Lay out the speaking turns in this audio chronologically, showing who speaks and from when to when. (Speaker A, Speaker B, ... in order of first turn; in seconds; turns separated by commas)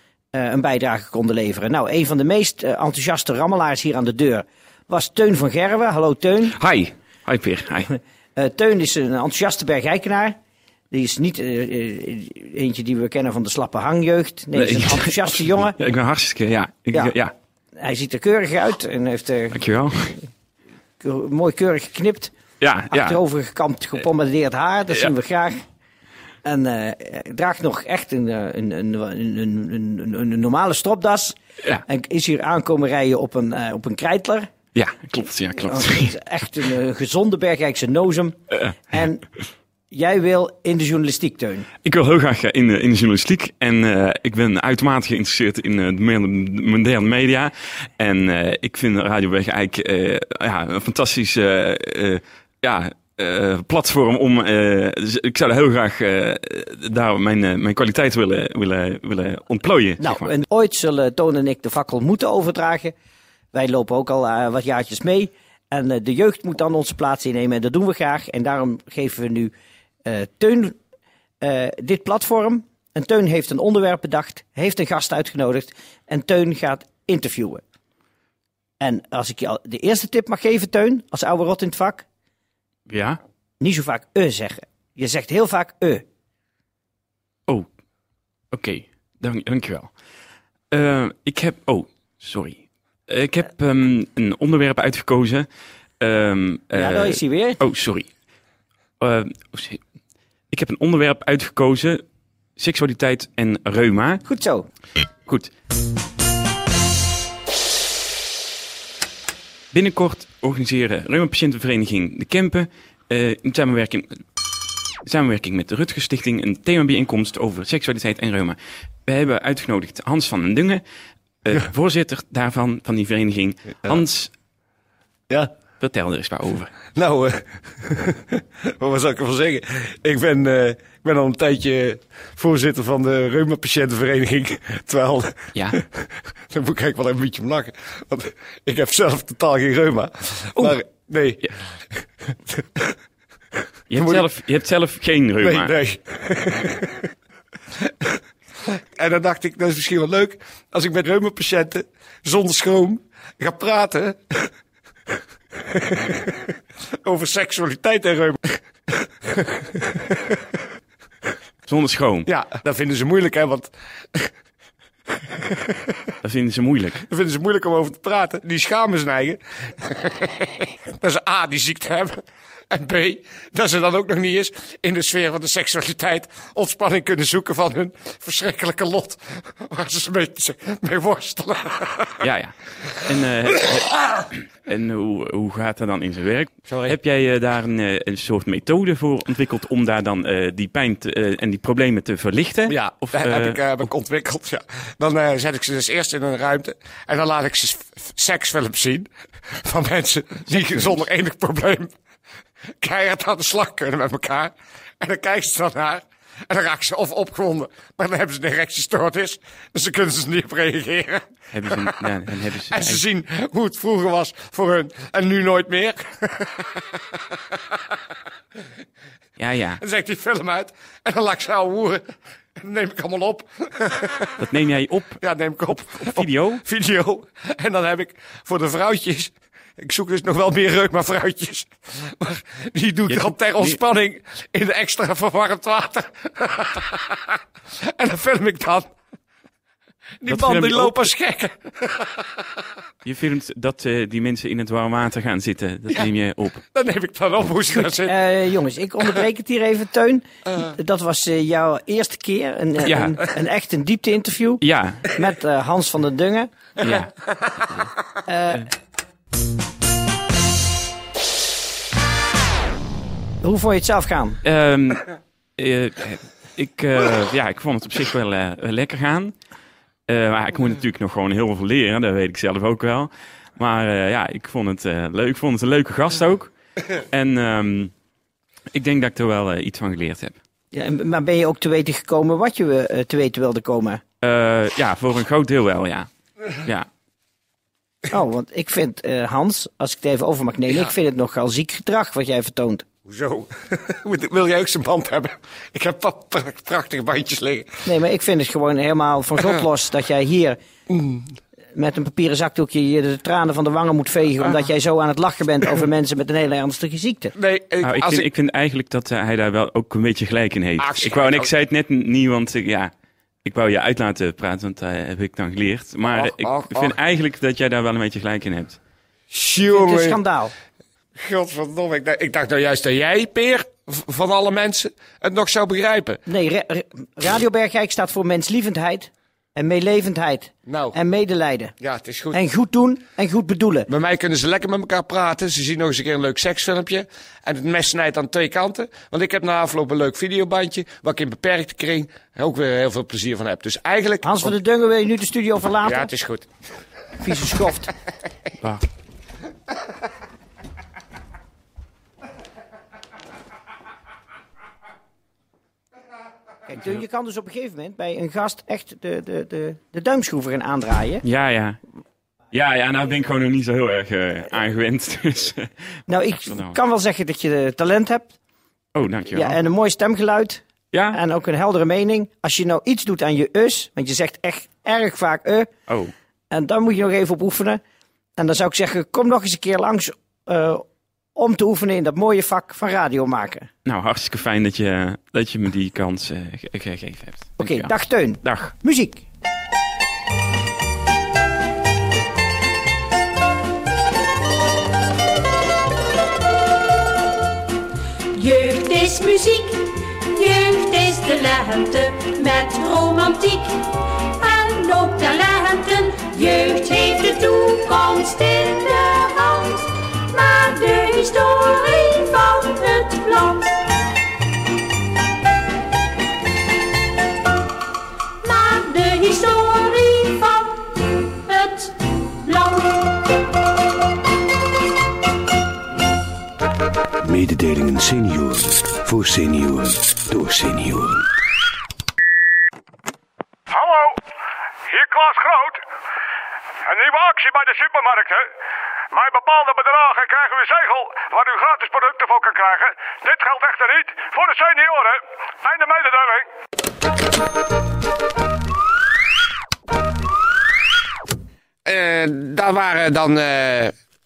Speaker A: 0.3-6.5, Speaker B: 6.5-7.9, Speaker A: 7.9-10.4, Speaker A: 10.9-15.8, Speaker B: 14.5-17.3, Speaker A: 17.8-19.6, Speaker B: 19.5-20.2, Speaker A: 21.0-22.3, Speaker B: 22.6-23.2, Speaker A: 22.9-25.6, Speaker A: 26.4-34.5, Speaker B: 34.7-36.1, Speaker A: 35.6-38.4, Speaker A: 38.9-39.2, Speaker A: 39.9-41.7, Speaker B: 41.8-60.3, Speaker A: 60.0-62.9, Speaker A: 63.5-69.5, Speaker A: 70.0-70.8, Speaker A: 71.4-77.6, Speaker A: 78.8-82.1, Speaker B: 82.9-83.2, Speaker A: 83.6-86.0, Speaker B: 88.5-89.9, Speaker B: 90.7-95.5, Speaker B: 96.0-98.1, Speaker A: 96.7-97.6, Speaker B: 99.0-99.8, Speaker B: 100.5-102.0, Speaker B: 102.6-104.2, Speaker A: 104.2-104.7, Speaker B: 105.2-105.5, Speaker B: 109.7-114.2, Speaker B: 115.0-120.8, Speaker B: 121.4-124.3, Speaker B: 125.8-126.7, Speaker C: 127.0-142.9, Speaker B: 143.9-145.7, Speaker C: 143.9-144.3, Speaker C: 145.4-147.1, Speaker C: 147.8-154.5, Speaker C: 155.6-156.5, Speaker C: 157.0-160.2, Speaker B: 161.7-162.3, Speaker C: 162.2-164.3, Speaker C: 165.3-166.0, Speaker B: 166.2-167.0, Speaker C: 167.0-182.2, Speaker B: 182.2-193.6, Speaker C: 186.7-186.9, Speaker C: 192.7-201.9, Speaker C: 202.8-212.0, Speaker B: 211.5-213.0, Speaker C: 212.7-218.0, Speaker B: 219.4-219.8, Speaker C: 219.8-224.4, Speaker B: 224.4-226.6, Speaker C: 225.2-238.9, Speaker B: 233.1-233.8, Speaker C: 240.2-242.4, Speaker B: 240.2-241.1, Speaker B: 243.0-246.6, Speaker C: 246.7-248.2, Speaker A: 247.7-256.5, Speaker B: 252.8-253.2, Speaker B: 254.6-255.0, Speaker B: 256.8-257.9, Speaker A: 258.2-258.7, Speaker A: 263.4-264.4, Speaker B: 264.4-269.4, Speaker B: 270.1-277.9, Speaker B: 278.7-280.4, Speaker A: 280.7-284.0, Speaker B: 284.2-286.9, Speaker A: 288.1-292.9, Speaker C: 293.1-297.8, Speaker A: 297.9-300.6, Speaker C: 300.9-301.2, Speaker A: 301.7-307.3, Speaker C: 307.4-308.3, Speaker B: 307.8-312.9, Speaker C: 310.8-311.5, Speaker B: 313.4-318.8, Speaker C: 316.0-317.0, Speaker C: 319.3-320.2, Speaker A: 319.6-320.5, Speaker C: 321.2-326.2, Speaker A: 326.2-331.7, Speaker C: 330.7-331.0, Speaker C: 331.8-332.4, Speaker A: 332.3-333.9, Speaker C: 333.9-344.5, Speaker A: 344.2-346.1, Speaker C: 345.8-346.5, Speaker A: 347.2-347.9, Speaker A: 356.6-361.2, Speaker B: 361.2-361.8, Speaker B: 362.5-365.7, Speaker A: 366.1-368.4, Speaker B: 366.5-366.8, Speaker B: 368.9-369.6, Speaker A: 369.3-375.7, Speaker B: 370.9-371.2, Speaker B: 375.9-376.1, Speaker A: 376.5-377.8, Speaker A: 378.4-380.8, Speaker A: 381.4-383.7, Speaker B: 383.9-388.7, Speaker A: 387.6-389.2, Speaker D: 398.3-413.9, Speaker D: 418.4-423.0, Speaker E: 427.2-431.2, Speaker F: 433.7-434.2, Speaker F: 434.9-435.8, Speaker F: 436.9-438.4, Speaker F: 439.1-446.4, Speaker C: 451.9-453.9